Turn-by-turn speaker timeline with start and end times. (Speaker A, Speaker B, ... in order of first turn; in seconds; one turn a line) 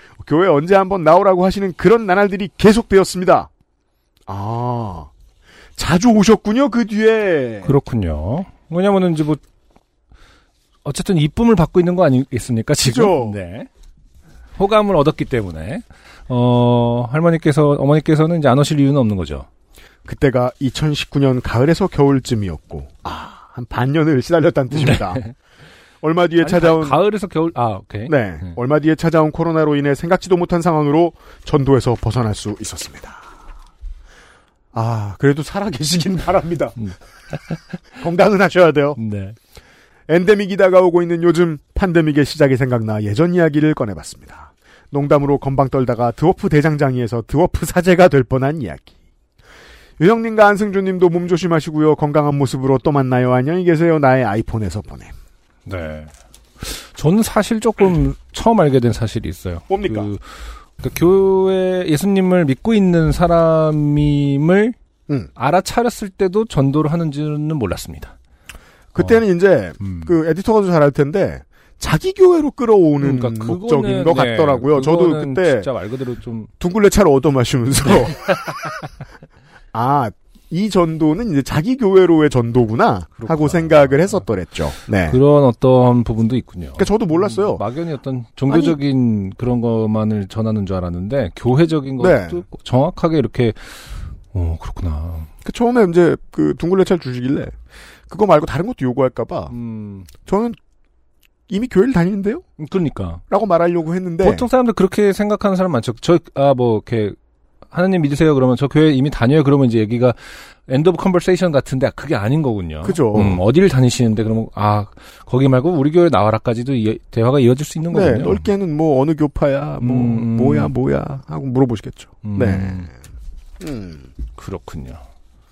Speaker A: 0.2-3.5
Speaker A: 4.3-5.1
Speaker A: 5.8-7.8
Speaker B: 7.6-9.4
Speaker B: 10.8-13.7
Speaker A: 12.8-13.4
Speaker B: 14.6-19.5
Speaker A: 20.1-25.2
Speaker B: 24.7-25.3
Speaker A: 26.0-27.0
Speaker B: 26.4-28.6
Speaker A: 28.1-33.3
Speaker A: 34.7-36.9
Speaker A: 38.0-39.0
Speaker B: 39.0-39.4
Speaker A: 40.1-48.9
Speaker A: 50.0-55.1
Speaker B: 55.6-56.1
Speaker B: 56.6-60.2
Speaker A: 59.7-60.1
Speaker B: 60.8-64.8
Speaker B: 65.3-68.1
Speaker A: 68.9-75.7
Speaker B: 69.8-70.1
Speaker B: 73.0-76.5
Speaker A: 76.6-78.5
Speaker A: 79.7-85.2
Speaker B: 83.2-84.2
Speaker B: 85.1-95.3
Speaker A: 86.8-87.6
Speaker A: 88.5-88.8
Speaker A: 92.0-92.4
Speaker A: 95.4-97.5
Speaker A: 98.1-99.5
Speaker B: 99.5-100.1
Speaker A: 100.2-100.6
Speaker A: 101.5-102.4
Speaker B: 102.6-103.2
Speaker A: 103.3-104.5
Speaker B: 104.2-107.2
Speaker B: 107.7-118.5
Speaker A: 112.8-113.4
Speaker A: 117.9-123.0
Speaker B: 119.8-120.7
Speaker B: 122.2-122.9
Speaker A: 123.6-124.1
Speaker B: 124.4-125.0